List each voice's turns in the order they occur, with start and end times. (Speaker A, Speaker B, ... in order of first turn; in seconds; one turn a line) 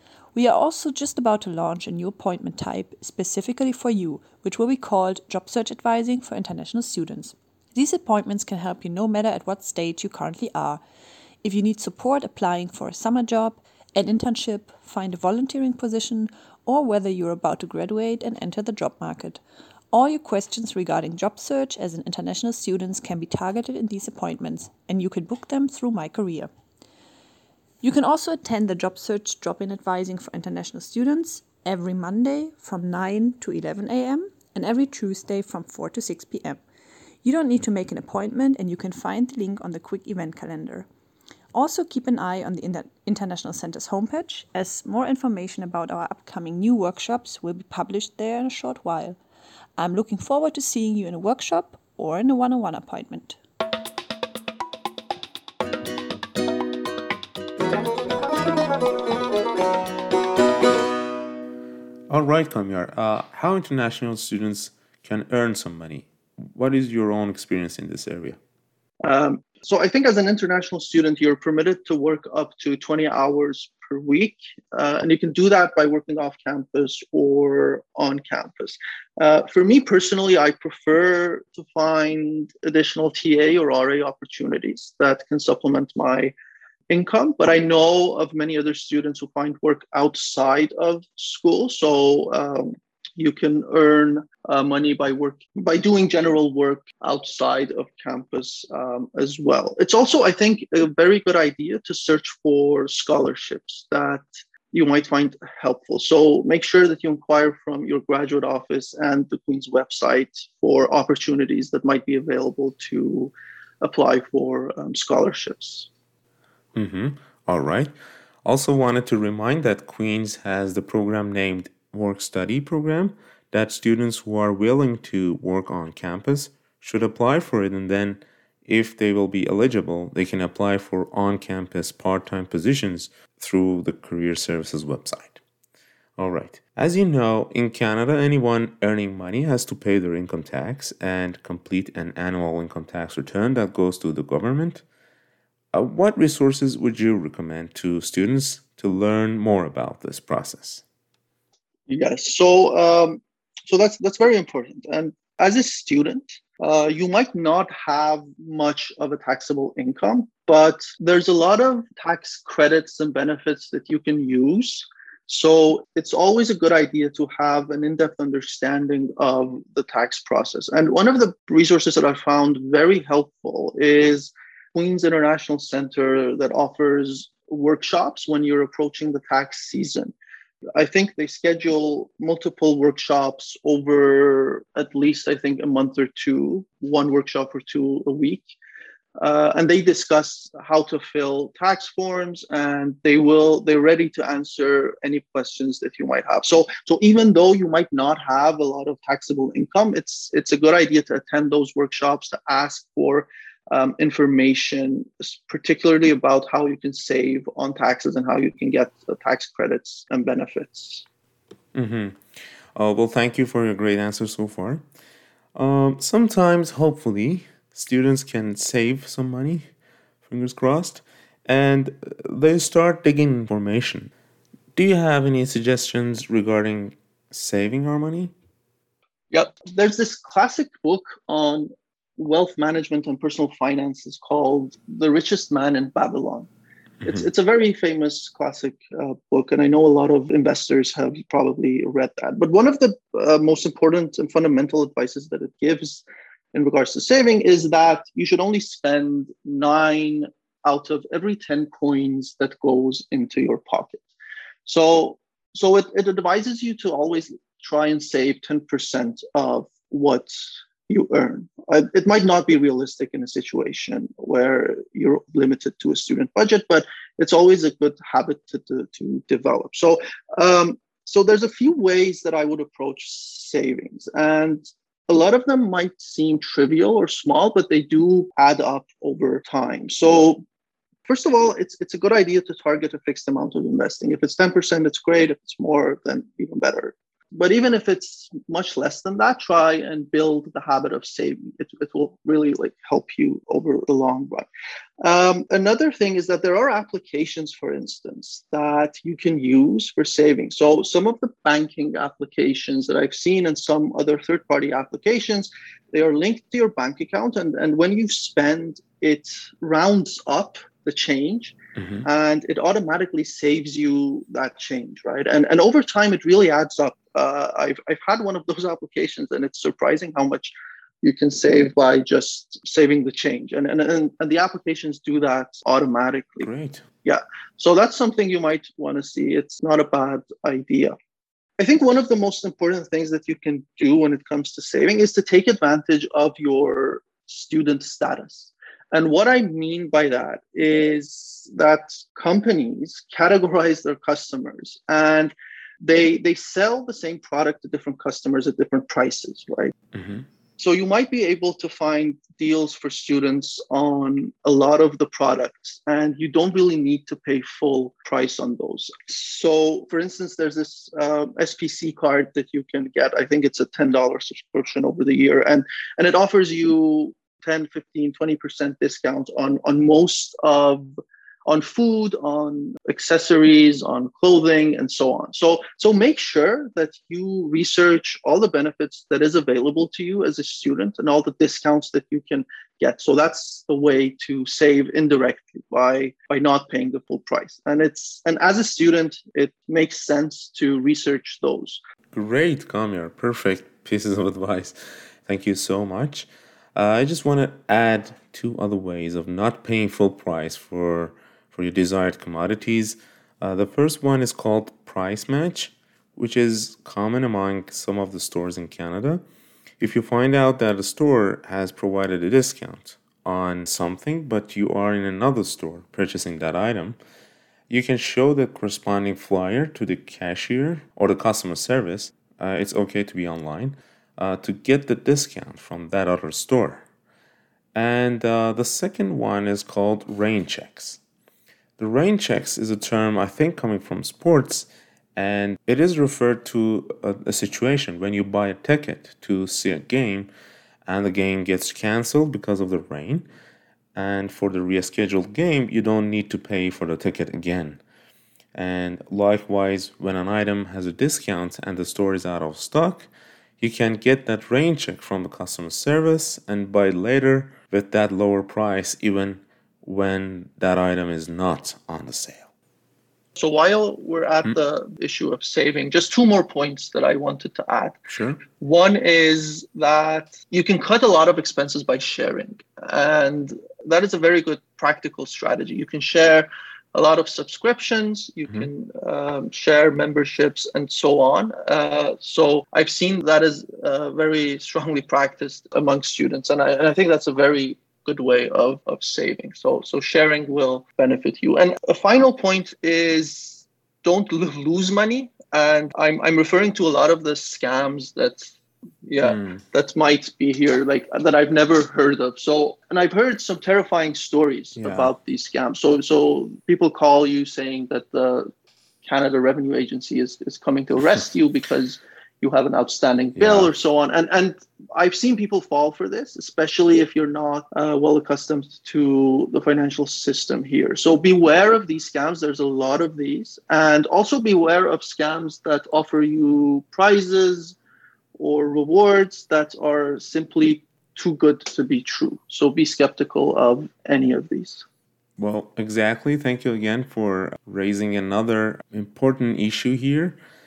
Speaker A: 0.3-10.8
Speaker A: 11.4-19.4
Speaker A: 19.9-26.5
Speaker A: 27.8-36.6
Speaker A: 37.2-40.9
Speaker A: 41.5-49.2
Speaker A: 49.8-53.4
Speaker B: 62.1-68.4
Speaker C: 69.0-86.3
Speaker C: 86.9-115.9
Speaker B: 116.8-117.9
Speaker B: 118.5-135.4
Speaker B: 136.2-144.8
Speaker B: 145.7-150.8
Speaker C: 151.9-180.1
Speaker C: 180.8-188.5
Speaker C: 189.2-211.1
Speaker B: 211.7-212.2
Speaker B: 212.8-214.8
Speaker B: 215.6-219.7
Speaker B: 220.2-224.1
Speaker B: 224.8-228.3
Speaker C: 229.3-236.5
Speaker C: 237.0-254.1
Speaker C: 254.7-280.5
Speaker C: 281.1-294.5
Speaker C: 295.0-326.5
Speaker B: 311.8-312.1
Speaker B: 326.4-326.8
Speaker C: 327.0-330.9
Speaker C: 331.6-349.7
Speaker B: 349.9-350.3
Speaker C: 350.6-391.8
Speaker B: 392.1-409.2
Speaker B: 409.8-417.0
Speaker B: 417.7-426.8
Speaker B: 427.8-431.0
Speaker B: 431.8-440.3
Speaker B: 440.9-443.3
Speaker B: 443.9-447.8
Speaker B: 448.5-462.5
Speaker C: 463.4-468.0
Speaker B: 468.1-468.4
Speaker C: 468.5-498.5
Speaker C: 499.0-508.5
Speaker B: 499.2-499.6
Speaker B: 504.8-505.1
Speaker C: 509.0-527.8
Speaker B: 513.4-513.7
Speaker C: 528.4-534.9
Speaker B: 535.4-540.4